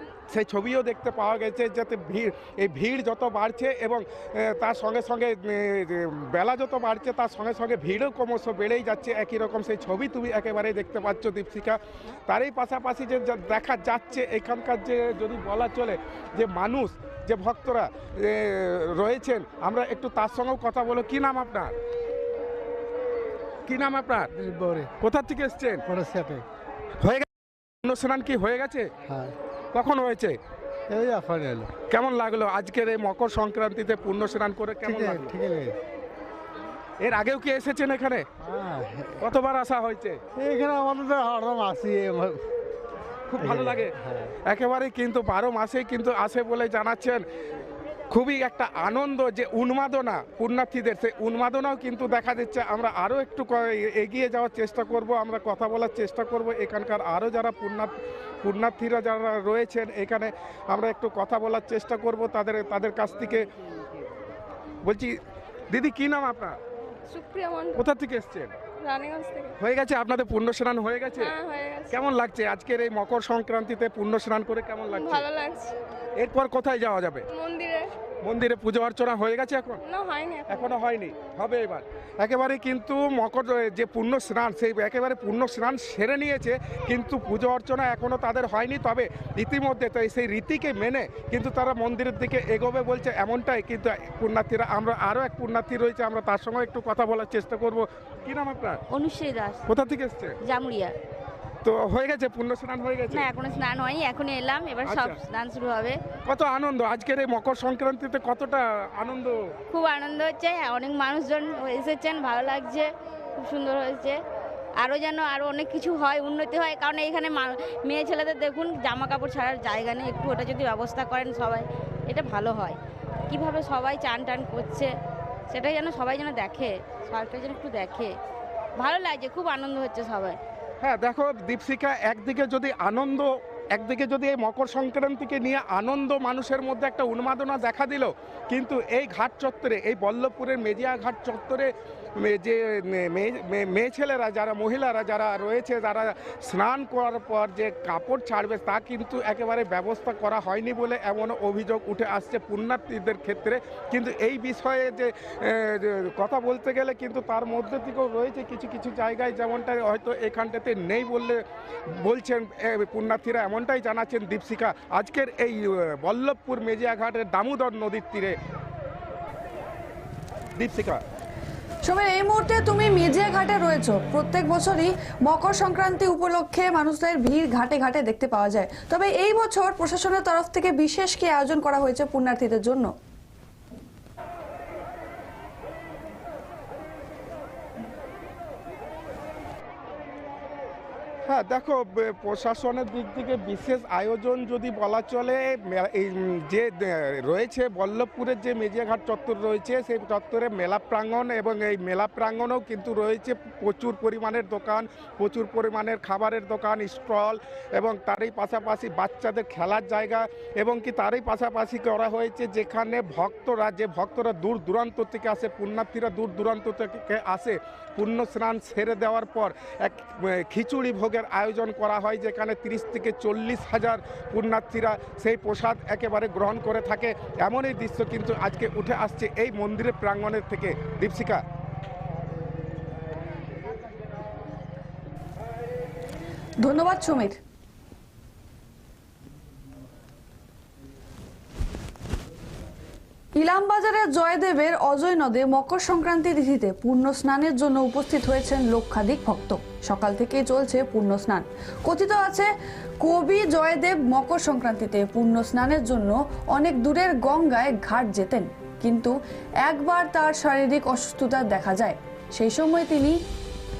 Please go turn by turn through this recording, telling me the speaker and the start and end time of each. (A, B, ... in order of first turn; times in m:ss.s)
0:00.3-0:21.7 A
0:23.7-0:24.3 A
0:24.3-0:24.9 B
0:25.0-0:25.8 A
0:25.9-0:26.4 B
0:27.0-0:27.2 A
0:27.8-0:28.9 A
0:29.0-0:29.3 B
0:29.7-0:30.4 A
0:30.9-0:31.7 B
0:31.9-0:35.4 A
0:34.8-0:35.7 B
0:37.0-0:38.2 A
0:38.4-0:39.1 B
0:39.2-0:40.2 A
0:40.4-0:42.4 B
0:43.3-0:43.9 A
0:43.4-0:44.3 B
0:44.5-0:47.2 A
0:48.1-1:03.5 A
1:04.8-1:05.1 A
1:05.7-1:06.6 A
1:07.2-1:07.7 C
1:07.7-1:08.5 A
1:08.9-1:09.5 C
1:09.6-1:11.4 A
1:11.4-1:11.9 C
1:11.9-1:15.3 A
1:15.0-1:15.7 C
1:16.2-1:17.2 A
1:17.4-1:17.8 C
1:18.2-1:19.8 A
1:20.0-1:20.6 C
1:20.5-1:38.8 A
1:38.9-1:39.6 D
1:39.6-1:40.4 A
1:40.4-1:40.9 D
1:41.6-1:43.2 A
1:43.1-1:46.0 D
1:44.8-1:45.2 A
1:46.2-1:49.4 A
1:49.7-1:54.2 D
1:54.8-2:02.8 D
2:03.3-2:04.9 D
2:05.5-2:08.1 D
2:08.8-2:10.4 D
2:10.8-2:48.4 A
2:50.6-2:51.0 A
2:51.8-3:02.9 E
3:11.3-3:51.4 A
3:56.6-3:57.4 E
4:03.4-4:12.5 E
4:13.0-4:23.2 E